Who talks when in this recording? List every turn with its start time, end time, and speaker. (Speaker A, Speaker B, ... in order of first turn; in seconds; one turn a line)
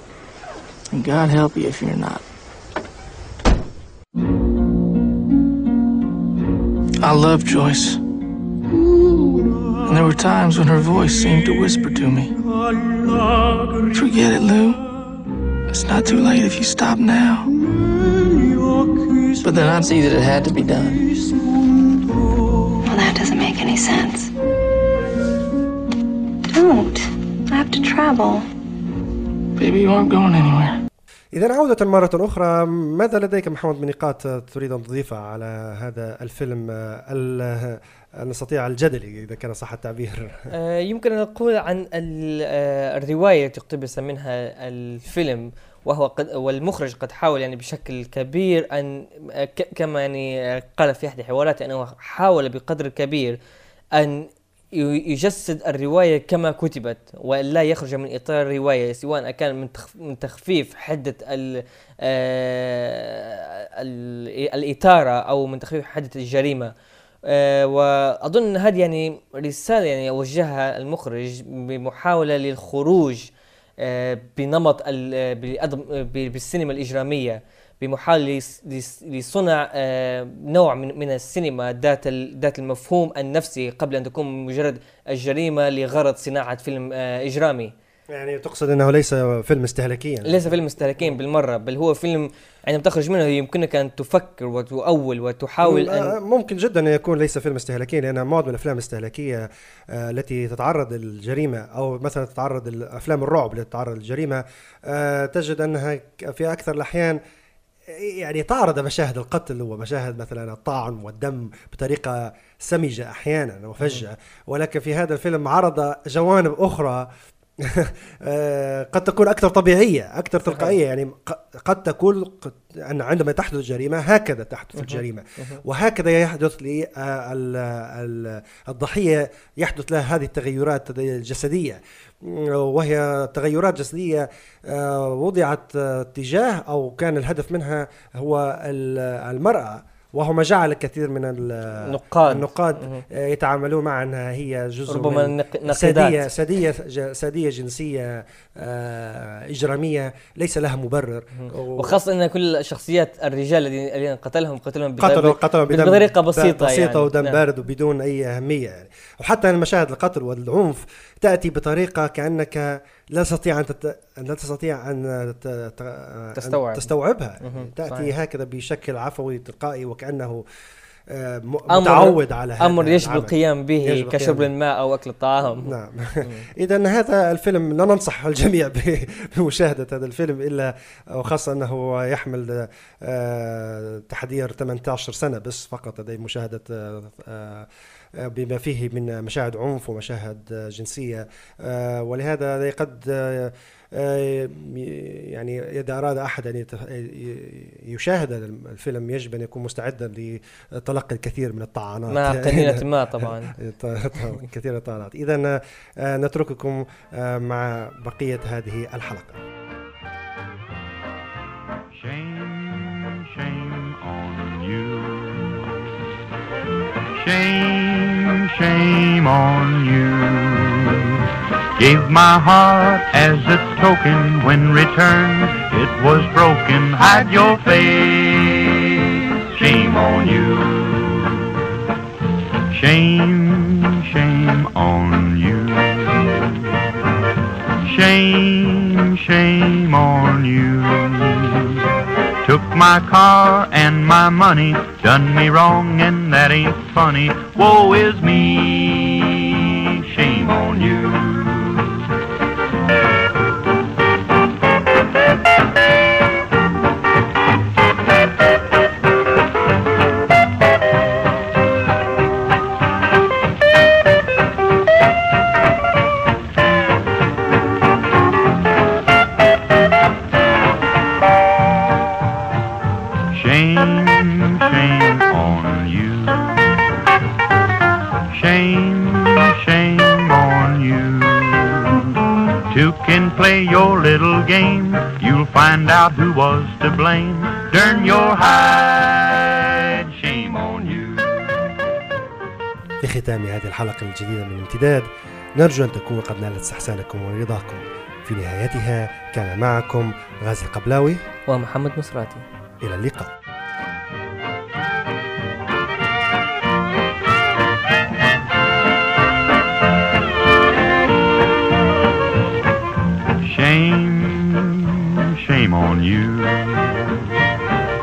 Speaker A: 0.9-2.2
Speaker A: 7.0-8.0
Speaker A: 8.8-12.3
Speaker A: 13.9-14.8
Speaker A: 15.7-17.5
Speaker A: 19.4-21.0
Speaker B: 22.8-24.3
Speaker B: 26.5-28.4
Speaker A: 29.6-30.8
Speaker C: 31.3-40.5
Speaker D: 40.5-53.4
Speaker D: 54.0-66.7
Speaker D: 67.3-73.3
Speaker D: 73.8-87.7
Speaker C: 88.1-90.5
Speaker D: 90.2-96.2
Speaker C: 95.6-107.2
Speaker C: 107.9-117.1
Speaker C: 117.6-152.0
Speaker D: 120.5-120.8
Speaker D: 124.8-125.6
Speaker D: 141.8-143.0
Speaker D: 144.9-146.2
Speaker D: 151.3-157.4
Speaker C: 155.0-170.4
Speaker D: 166.3-166.9
Speaker D: 167.4-168.1
Speaker C: 171.1-174.5
Speaker D: 171.7-176.5
Speaker C: 175.6-209.4
Speaker D: 202.1-203.6
Speaker E: 211.9-215.9
Speaker E: 217.1-231.6
Speaker E: 232.7-236.8
Speaker E: 237.8-241.9
Speaker E: 242.4-252.1
Speaker E: 273.3-276.6
Speaker E: 278.3-291.6
Speaker C: 293.0-301.2
Speaker D: 301.5-302.4
Speaker C: 302.8-303.3
Speaker E: 313.4-317.3